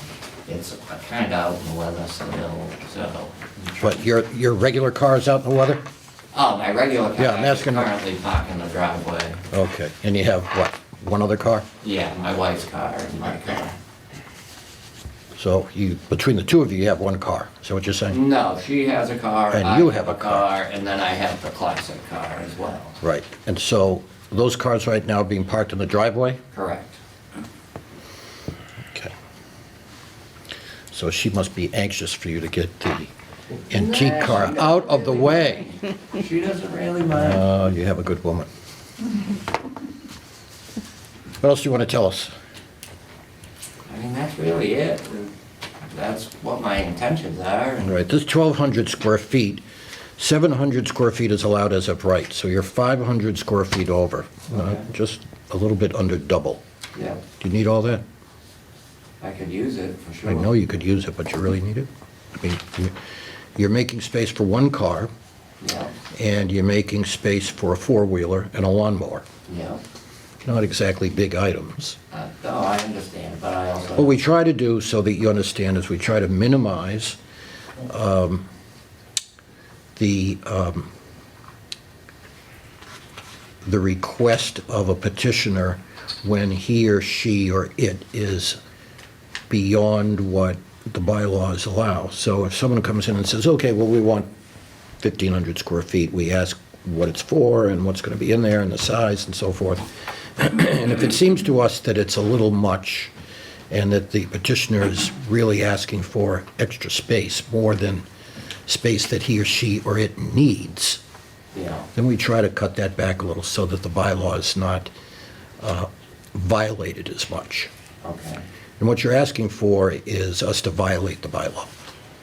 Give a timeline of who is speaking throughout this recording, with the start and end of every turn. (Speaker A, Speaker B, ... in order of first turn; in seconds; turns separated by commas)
Speaker A: 0.5-4.0, Speaker B: 3.8-5.8, Speaker A: 6.3-9.4, Speaker B: 7.2-7.9, Speaker B: 9.5-11.7, Speaker A: 11.8-13.8, Speaker B: 15.4-18.2, Speaker A: 18.1-23.0, Speaker B: 19.5-20.5, Speaker B: 23.0-26.4, Speaker A: 26.5-27.0, Speaker B: 28.9-29.1, Speaker B: 30.9-33.1, Speaker B: 33.7-35.8, Speaker A: 33.7-37.5, Speaker B: 37.1-38.5, Speaker B: 41.4-42.3, Speaker A: 43.9-45.3, Speaker A: 45.9-47.9, Speaker B: 47.8-49.6, Speaker B: 50.2-56.6, Speaker A: 54.5-54.8, Speaker A: 57.0-57.2, Speaker B: 57.4-58.0, Speaker A: 59.2-60.5, Speaker B: 60.2-63.0, Speaker B: 63.6-65.1, Speaker A: 65.6-65.9, Speaker B: 66.1-69.2, Speaker A: 69.5-69.8, Speaker B: 70.5-72.0, Speaker A: 72.1-74.2, Speaker B: 74.0-77.2, Speaker B: 77.8-78.5, Speaker B: 80.0-80.9, Speaker B: 83.6-88.6, Speaker B: 89.5-94.3, Speaker B: 95.0-103.1, Speaker B: 103.7-108.0, Speaker B: 108.7-111.0, Speaker A: 111.5-111.9, Speaker B: 112.0-114.9, Speaker B: 115.6-117.7, Speaker A: 118.0-118.4, Speaker B: 118.8-121.7